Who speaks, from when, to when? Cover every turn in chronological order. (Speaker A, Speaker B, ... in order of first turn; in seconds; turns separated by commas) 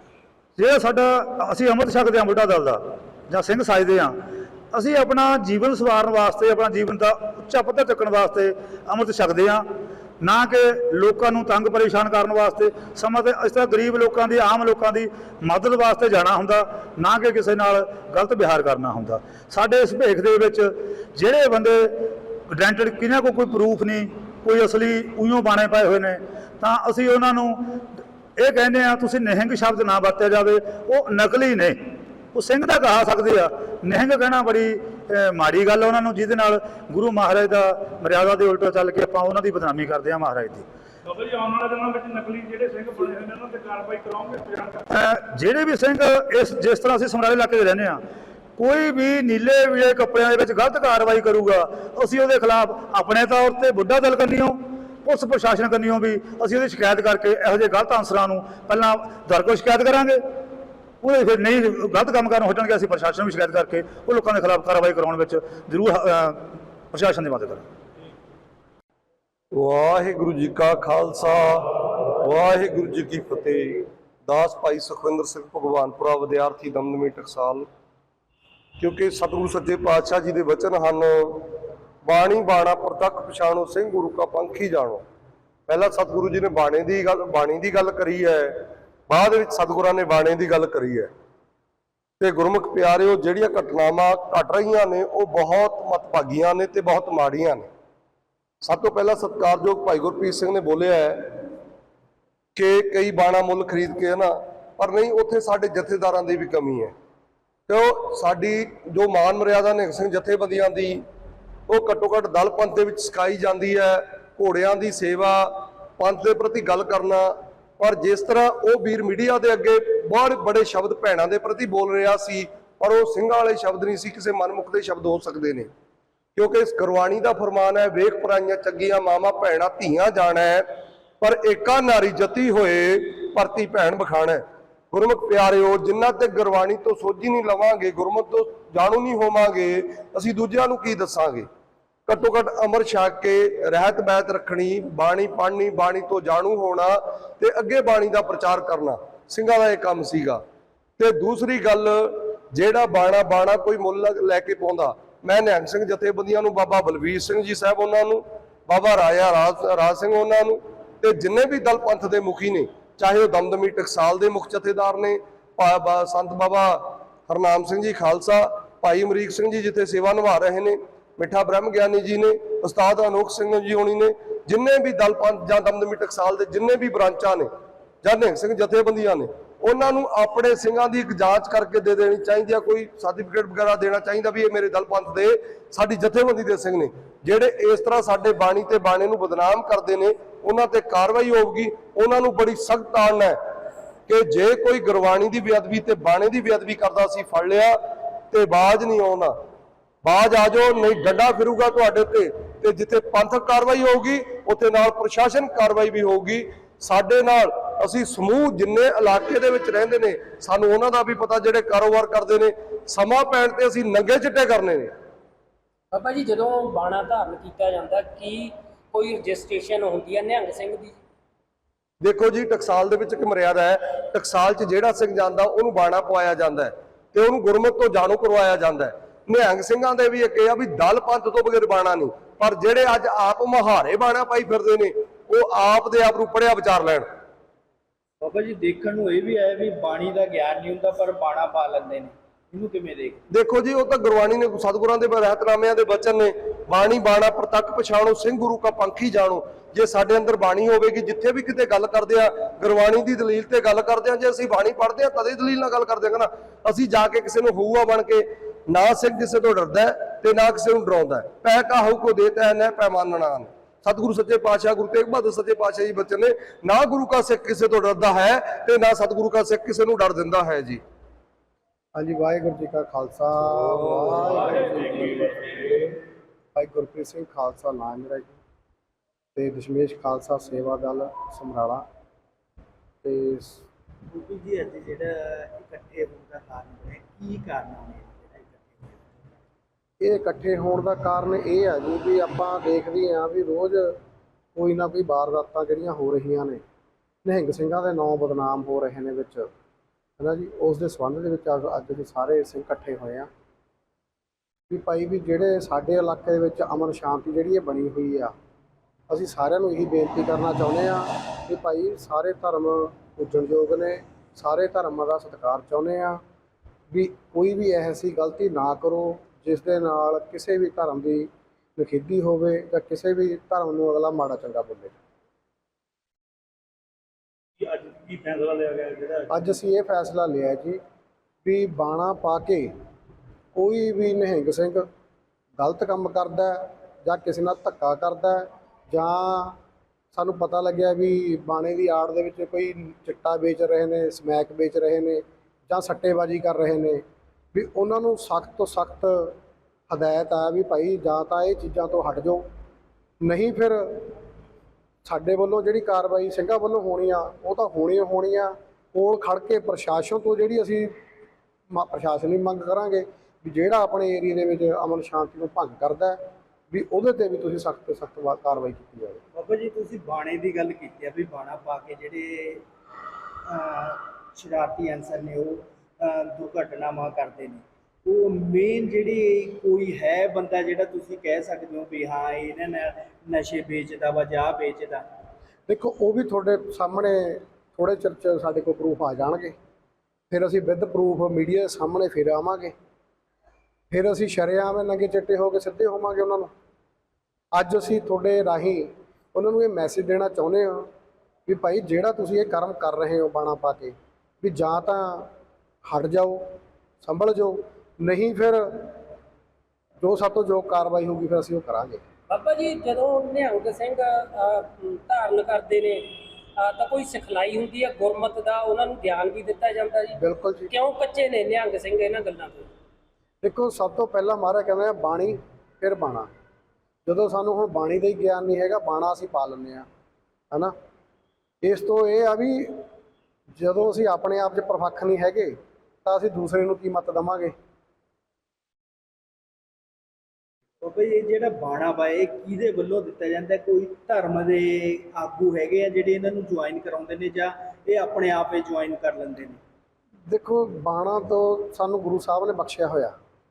Speaker A: 0.6-4.2, Speaker A: 4.7-9.6, Speaker A: 10.2-27.8, Speaker A: 28.4-31.8, Speaker A: 32.3-40.6, Speaker B: 41.2-44.6, Speaker A: 44.6-48.0, Speaker A: 48.6-60.2, Speaker A: 61.0-67.6, Speaker C: 69.5-77.7, Speaker C: 78.8-81.5, Speaker C: 82.0-85.0, Speaker C: 85.7-91.1, Speaker C: 92.2-97.7, Speaker C: 98.6-101.4, Speaker C: 102.6-106.9, Speaker C: 107.7-111.0, Speaker C: 111.7-125.7, Speaker C: 126.4-130.7, Speaker C: 131.2-141.5, Speaker C: 142.1-150.4, Speaker C: 151.0-177.5, Speaker C: 178.0-193.4, Speaker C: 194.1-197.8, Speaker C: 198.3-199.4, Speaker C: 200.0-214.9, Speaker D: 215.9-221.0, Speaker C: 222.0-237.1, Speaker E: 238.2-243.2, Speaker C: 243.3-270.8, Speaker F: 271.9-275.4, Speaker F: 276.6-278.4, Speaker F: 279.4-281.9, Speaker F: 283.0-283.6, Speaker E: 284.1-289.3, Speaker F: 290.0-294.0, Speaker F: 294.6-296.6, Speaker F: 297.2-299.5, Speaker F: 300.2-303.3, Speaker F: 304.7-308.3, Speaker F: 309.1-316.2, Speaker F: 316.9-324.9, Speaker B: 327.6-329.3, Speaker F: 329.3-330.8, Speaker F: 331.4-332.7, Speaker F: 333.6-334.9, Speaker F: 335.6-339.6, Speaker F: 340.1-347.0, Speaker F: 347.5-349.4, Speaker F: 349.9-352.4, Speaker F: 353.2-354.1, Speaker F: 355.0-360.9, Speaker F: 361.7-366.2, Speaker F: 366.7-369.2, Speaker E: 369.3-372.6, Speaker E: 373.5-385.0, Speaker F: 385.7-389.6, Speaker F: 390.3-392.7, Speaker F: 393.9-396.5, Speaker F: 397.6-400.9, Speaker F: 401.5-405.3, Speaker F: 405.9-406.4, Speaker F: 407.0-408.9, Speaker F: 410.0-412.0, Speaker D: 412.3-422.7, Speaker F: 420.2-420.7, Speaker F: 423.4-426.3, Speaker F: 427.1-429.9, Speaker F: 431.6-432.8, Speaker F: 433.6-437.5, Speaker E: 440.8-449.6, Speaker F: 450.3-453.2